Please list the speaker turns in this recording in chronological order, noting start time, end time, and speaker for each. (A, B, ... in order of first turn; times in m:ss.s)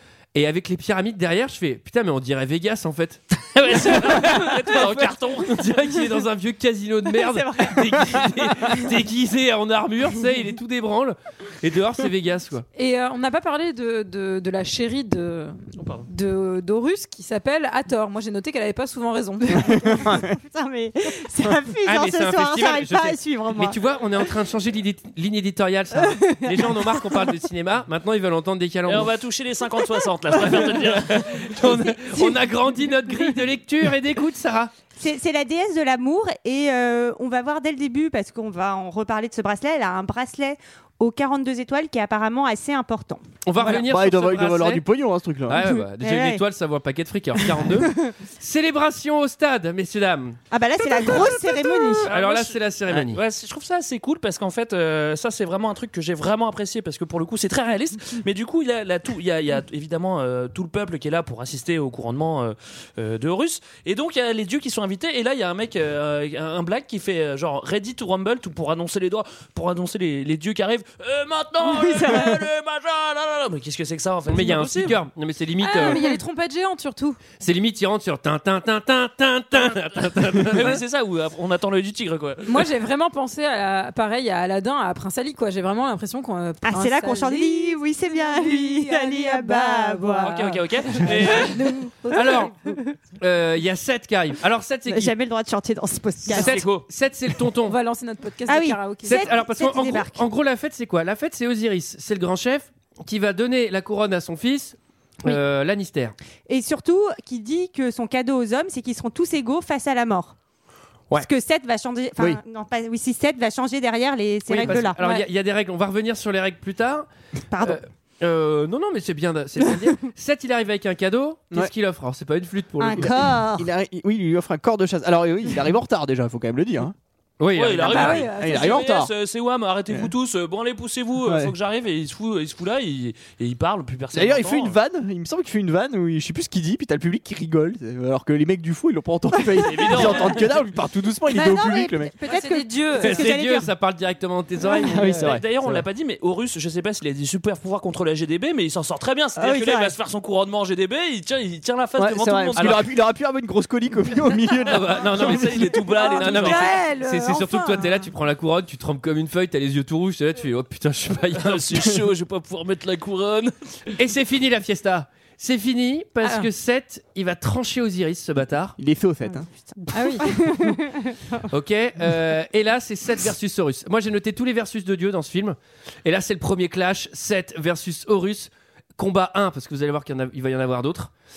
0:00.3-0:12.6 A
0:03.6-0:05.7 B
0:07.2-0:08.3 C
0:12.8-0:20.1 D
0:15.8-0:16.1 B
0:19.6-0:20.3 E
0:20.0-0:23.8 C
0:21.8-0:29.1 A
0:26.0-0:27.0 C
0:28.9-0:31.4 B
0:30.4-0:34.7 A
0:31.6-0:32.4 C
0:35.0-0:43.8 C
0:43.4-0:44.9 A
0:43.6-0:45.6 E
0:45.5-0:50.4 A
0:45.6-0:46.4 C
0:47.4-0:48.1 C
0:50.5-0:52.1 C
0:51.0-0:52.0 D
0:52.1-0:53.2 A
0:52.1-1:15.0 B
1:14.3-1:16.0 A
1:15.6-1:17.2 D
1:17.4-1:20.8 A
1:20.4-1:22.7 B
1:22.5-1:32.5 D
1:26.6-1:30.5 C
1:30.2-1:31.8 B
1:31.5-1:32.9 C
1:32.1-1:32.6 A
1:33.2-1:35.1 A
1:34.9-1:36.6 C
1:36.3-1:36.8 B
1:36.3-1:37.8 A
1:37.6-1:39.3 D
1:38.5-1:40.2 C
1:39.0-1:46.2 A
1:46.5-1:50.4 C
1:51.2-1:55.3 C
1:54.5-1:57.1 A
1:57.5-1:57.8 C
1:57.6-2:03.2 A
2:02.8-2:03.7 C
2:03.0-2:07.0 E
2:07.4-2:08.3 A
2:07.5-2:14.8 B
2:07.8-2:08.9 D
2:08.3-2:09.1 E
2:11.2-2:11.5 E
2:14.1-2:22.1 E
2:19.6-2:20.5 B
2:21.3-2:23.7 C
2:22.2-2:23.3 D
2:23.0-2:25.4 A
2:24.8-2:25.8 E
2:25.0-2:32.9 B
2:29.4-2:29.9 C
2:32.0-2:35.7 E
2:32.6-2:32.8 A
2:34.7-2:41.7 A
2:35.0-2:36.8 B
2:36.0-2:38.1 D
2:41.4-2:43.6 B
2:44.0-2:48.8 A
2:46.2-2:46.5 D
2:48.8-2:49.5 E
2:49.3-2:51.4 C
2:49.9-2:50.4 D
2:51.5-3:01.1 A